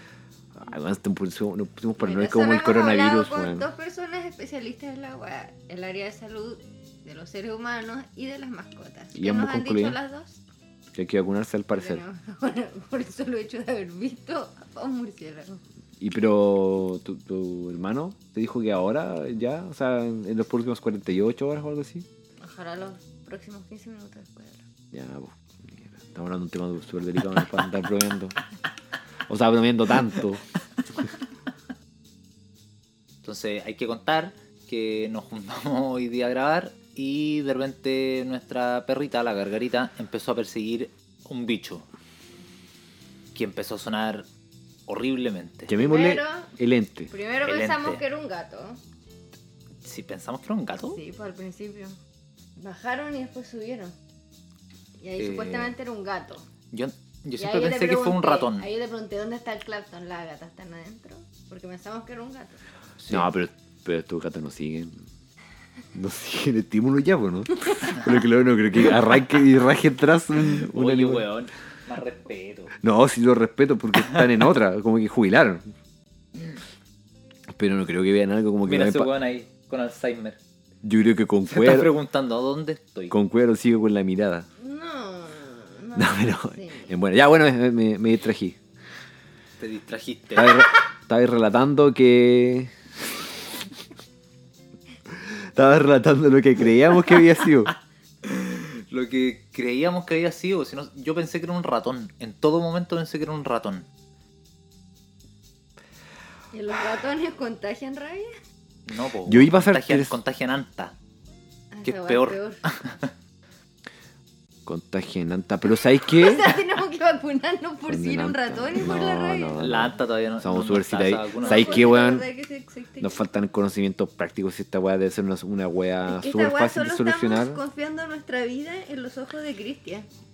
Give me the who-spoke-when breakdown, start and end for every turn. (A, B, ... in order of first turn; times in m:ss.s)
0:00.5-0:03.6 A
0:02.0-0:10.4 B
0:09.1-0:10.0 A
0:10.9-0:12.0 A
0:11.7-0:15.6 B
0:16.0-0:22.0 A
0:22.4-0:24.6 B
0:24.9-0:28.4 A
0:29.3-0:30.4 A
0:33.2-0:41.8 C
0:43.3-0:44.2 C
0:44.9-0:45.7 C
0:45.7-0:47.1 A
0:45.8-0:46.5 B
0:47.1-0:48.8 B
0:47.4-0:48.0 C
0:49.8-0:51.0 C
0:50.8-0:52.0 B
0:52.6-0:53.9 B
0:55.0-0:56.5 B
0:55.2-0:55.7 C
0:56.7-0:58.7 C
0:57.4-1:02.6 B
1:03.0-1:03.3 C
1:03.1-1:04.9 A
1:05.9-1:11.3 A
1:10.4-1:12.8 C
1:12.8-1:15.6 A
1:17.5-1:19.1 A
1:18.6-1:20.4 C
1:20.8-1:21.9 A
1:21.5-1:23.1 C
1:23.1-1:24.4 A
1:24.6-1:26.9 B
1:25.9-1:28.6 A
1:29.6-1:30.7 C
1:30.4-1:33.2 A
1:35.1-1:37.7 A
1:38.2-1:43.9 C
1:46.5-1:48.4 B
1:48.8-1:50.9 C
1:49.2-1:50.1 A
1:51.7-1:52.6 B
1:51.8-1:53.1 C
1:54.6-1:56.6 A
1:56.0-1:59.6 B
1:57.9-2:02.2 A
1:59.6-2:01.9 C
2:01.4-2:03.2 B
2:03.0-2:07.6 A
2:06.0-2:10.1 B